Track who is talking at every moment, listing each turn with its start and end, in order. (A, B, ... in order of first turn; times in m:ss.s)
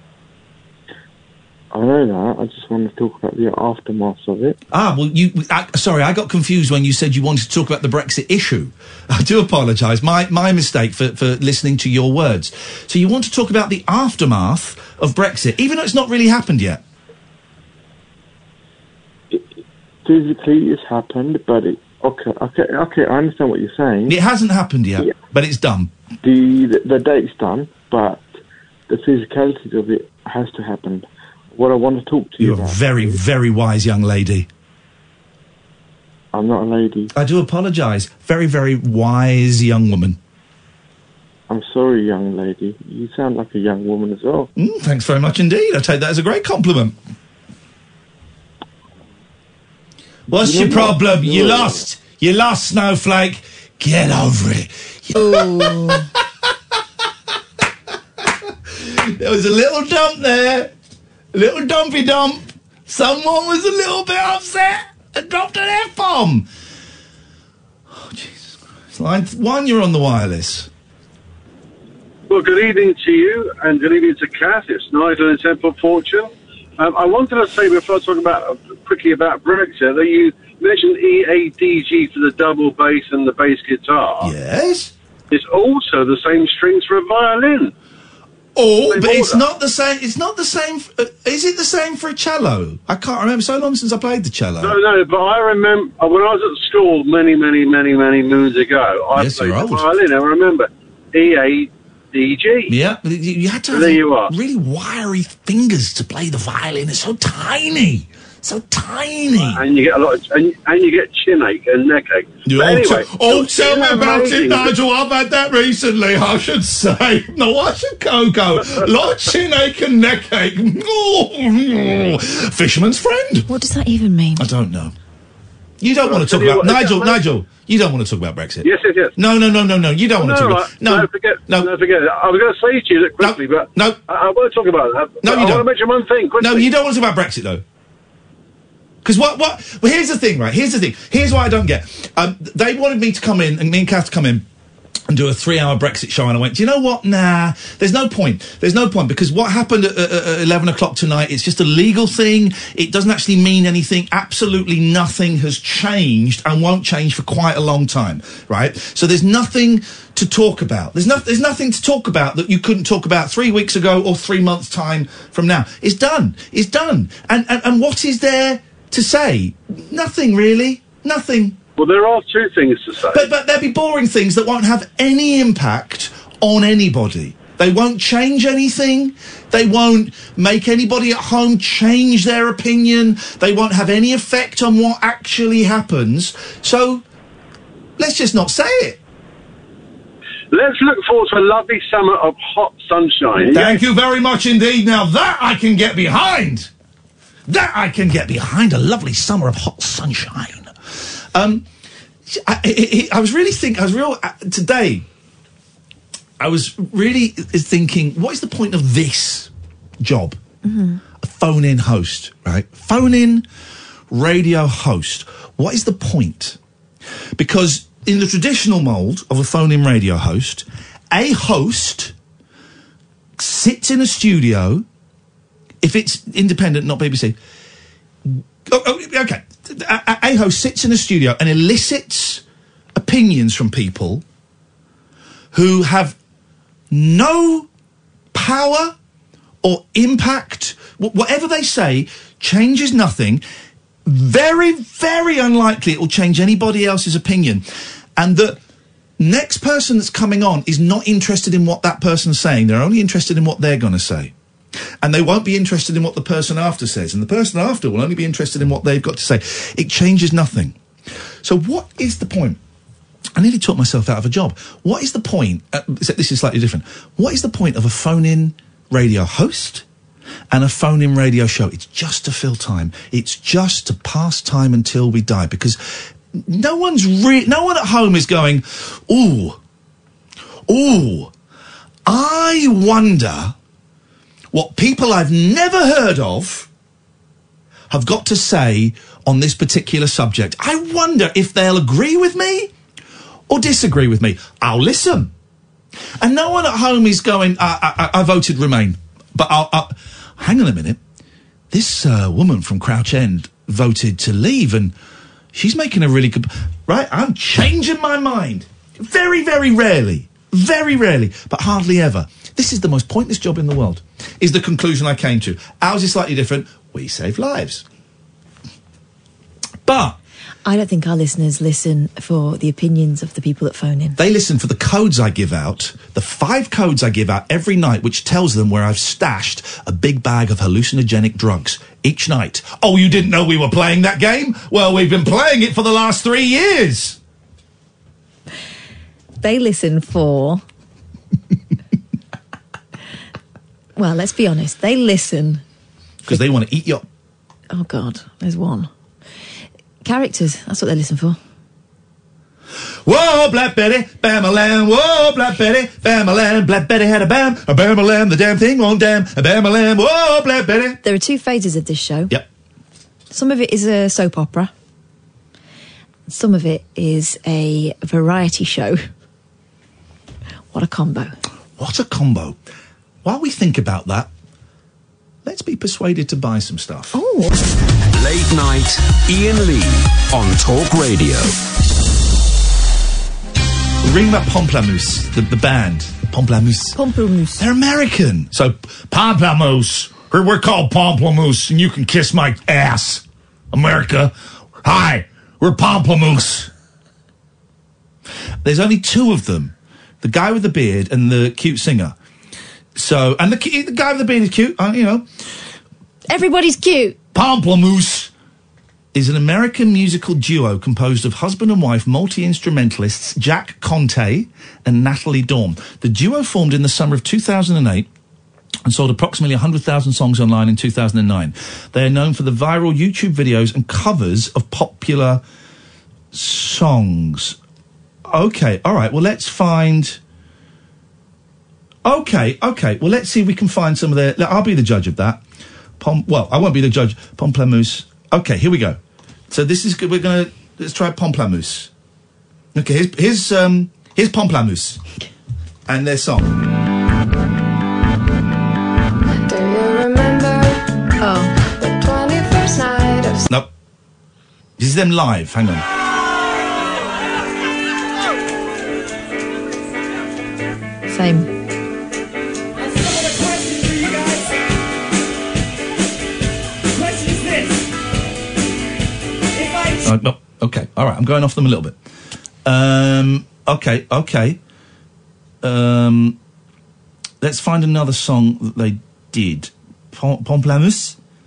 0:01.7-0:04.6 A
0:04.7-0:16.8 B
0:20.0-0:24.2 A
0:24.1-0:25.9 B
0:26.2-0:28.4 A
0:28.9-0:33.2 A
0:32.4-0:34.5 B
0:36.3-0:37.1 A
0:37.1-0:40.2 B
0:41.5-0:44.5 A
0:44.6-0:47.0 B
0:50.3-0:56.5 B
0:50.4-0:51.8 A
0:55.2-0:56.1 C
0:58.7-1:00.7 B
1:01.3-1:06.5 B
1:07.9-1:10.7 B
1:12.3-1:24.3 D
1:24.2-1:24.9 B
1:25.3-1:27.7 D
1:28.6-1:34.8 B
1:28.9-1:29.4 D
1:34.6-1:42.7 D
1:39.2-1:39.8 B
1:42.7-1:49.6 B
1:43.7-1:44.3 D
1:49.4-1:54.7 D
1:52.5-2:03.5 B
2:03.5-2:04.5 C
2:04.4-2:04.9 B
2:05.8-2:11.7 B
2:06.0-2:07.2 D
2:08.6-2:09.1 D
2:10.1-2:16.7 D
2:13.2-2:14.0 B
2:15.2-2:15.6 B
2:16.4-2:17.6 B
2:19.0-2:24.4 B
2:25.1-2:51.6 B
2:51.8-2:53.3 D
2:53.1-3:07.0 B
3:08.0-3:09.0 B
3:10.5-3:13.8 D
3:13.5-3:16.7 B
3:17.5-3:21.6 B
3:22.3-3:25.1 B
3:26.4-3:29.5 B
3:30.0-3:30.4 B
3:30.6-3:31.0 C
3:31.2-3:33.5 B
3:34.1-3:36.6 B
3:37.4-3:42.1 B
3:43.4-3:44.8 B
3:45.8-3:47.4 B
3:48.2-3:52.4 B
3:53.0-3:54.2 B
3:55.5-3:56.2 B
3:56.9-3:57.7 B
3:58.3-3:58.9 B
3:59.6-4:03.4 B
4:04.0-4:07.6 B
4:08.2-4:08.6 B
4:09.2-4:14.3 B
4:15.0-4:20.8 B
4:21.4-4:22.6 B
4:23.4-4:29.8 B
4:30.5-4:39.6 B
4:40.7-4:41.3 B
4:42.1-4:43.6 B
4:44.5-4:46.7 B
4:47.9-4:52.7 B
4:53.5-4:55.3 B
4:56.2-5:01.0 B
5:01.7-5:04.9 B
5:05.5-5:17.8 B
5:19.9-5:20.2 B
5:20.6-5:24.2 C
5:24.2-5:37.2 B
5:39.4-5:40.6 C
5:44.0-5:45.6 C
5:46.2-5:47.1 B
5:47.7-5:48.9 C
5:50.0-5:51.4 C
5:53.1-6:01.0 B
6:01.0-6:02.3 C
6:03.3-6:04.7 C
6:06.3-6:09.0 C
6:10.7-6:11.4 C
6:11.8-6:12.6 B
6:13.2-6:14.3 B
6:15.4-6:17.2 B
6:17.1-6:17.6 C
6:18.1-6:21.5 E
6:24.0-6:27.0 B
6:27.0-6:27.6 C
6:27.6-6:36.7 B
6:38.6-6:42.2 B
6:43.0-6:45.3 B
6:46.3-6:47.2 C
6:47.3-6:48.3 B
6:49.1-6:58.1 B
6:58.8-7:05.4 B
7:06.3-7:07.6 B
7:08.3-7:10.2 B
7:12.0-7:15.4 B
7:16.0-7:19.0 B
7:19.5-7:21.9 B
7:22.8-7:25.0 B
7:25.9-7:26.6 B
7:29.3-7:30.9 F
7:31.2-7:31.5 C
7:31.8-7:33.5 F
7:34.8-7:35.8 B
7:41.1-7:41.5 C
7:50.0-7:52.0 B
7:52.6-7:54.6 B
7:55.6-7:56.4 B
7:57.4-8:01.2 B